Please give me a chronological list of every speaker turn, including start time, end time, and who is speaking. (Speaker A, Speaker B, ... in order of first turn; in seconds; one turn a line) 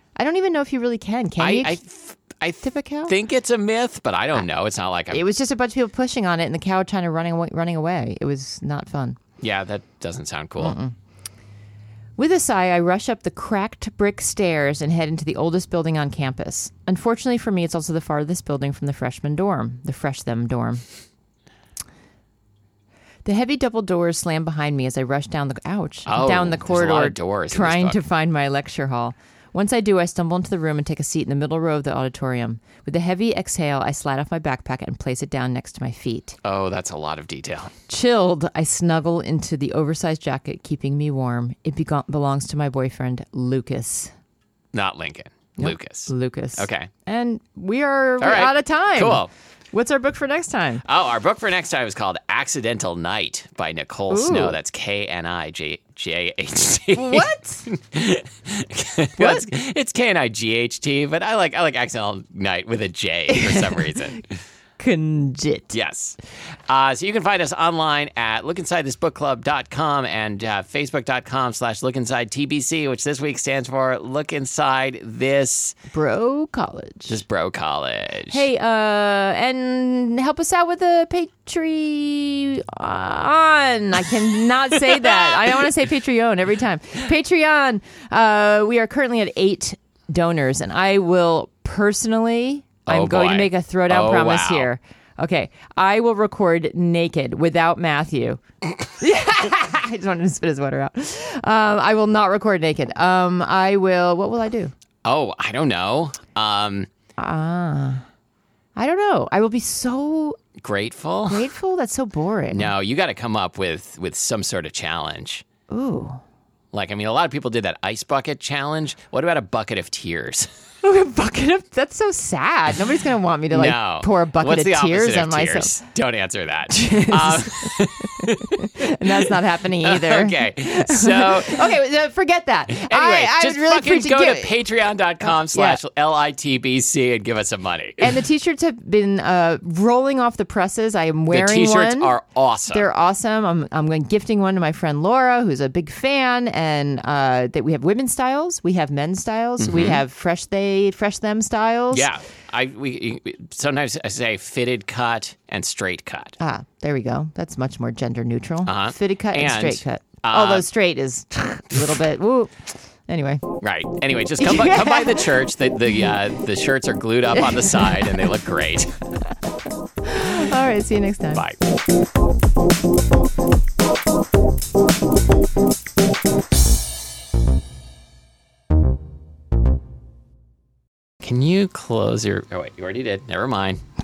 Speaker A: 0.1-1.8
Speaker B: 1.4-5.2
Speaker A: 2.6-3.1
Speaker A: 5.1-9.2
Speaker B: 9.4-10.8
Speaker A: 10.6-10.9
Speaker A: 12.2-20.8
Speaker A: 23.2-36.4
Speaker B: 26.1-28.0
Speaker B: 36.4-37.7
Speaker A: 37.9-44.1
Speaker B: 44.7-46.9
Speaker A: 45.6-50.8
Speaker B: 48.2-49.3
Speaker B: 50.8-64.3
Speaker A: 54.1-54.6
Speaker A: 56.9-57.6
Speaker A: 59.2-59.5
Speaker A: 63.3-64.2
Speaker A: 64.8-65.7
Speaker B: 65.7-66.2
Speaker B: 66.7-75.8
Speaker A: 75.9-77.2
Speaker B: 77.1-78.4
Speaker A: 78.3-104.7
Speaker B: 92.8-94.7
Speaker B: 105.0-106.9
Speaker A: 107.2-108.0
Speaker A: 108.7-110.4
Speaker B: 110.6-111.5
Speaker A: 111.3-112.7
Speaker B: 112.5-115.4
Speaker A: 115.7-116.2
Speaker B: 116.7-120.5
Speaker A: 120.8-125.8
Speaker B: 123.5-131.7
Speaker A: 126.7-134.6
Speaker B: 132.7-138.1
Speaker A: 135.3-135.8
Speaker A: 138.0-142.1
Speaker B: 141.3-142.9
Speaker A: 142.7-152.1
Speaker B: 149.6-150.0
Speaker B: 151.9-156.3
Speaker A: 156.4-163.4
Speaker B: 158.6-160.6
Speaker B: 163.6-168.9
Speaker A: 164.4-165.3
Speaker A: 167.4-168.2
Speaker A: 170.0-171.4
Speaker B: 181.2-183.8